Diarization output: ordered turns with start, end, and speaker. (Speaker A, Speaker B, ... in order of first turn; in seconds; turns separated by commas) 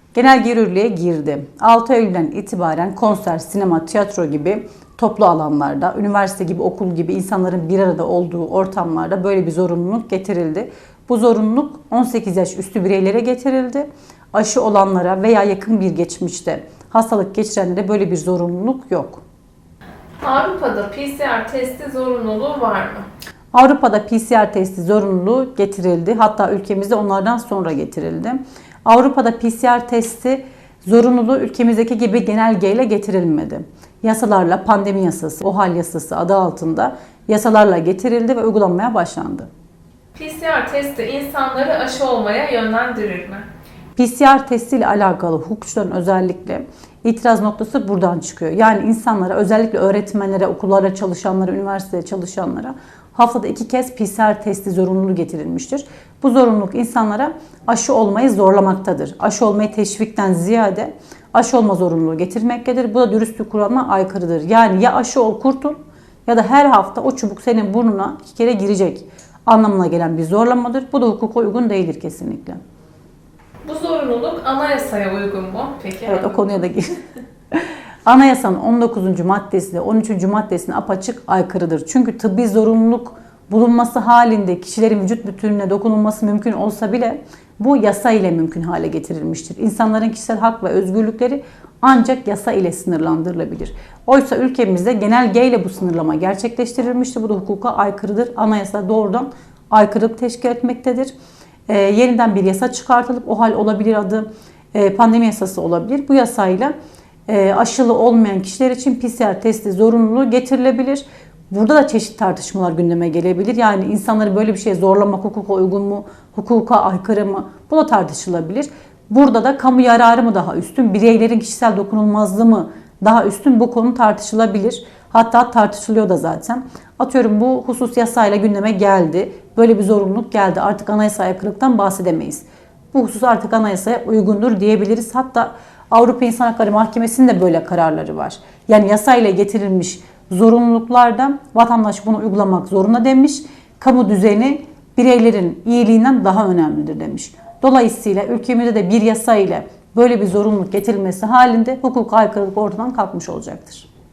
Speaker A: 0.1-19.2, Speaker B: 20.2-23.1, Speaker A: 23.5-39.5, Speaker B: 40.1-43.5, Speaker A: 44.0-72.6, Speaker B: 73.7-76.5, Speaker A: 76.1-76.9, Speaker A: 77.5-101.1, Speaker A: 101.7-106.7, Speaker A: 107.3-153.9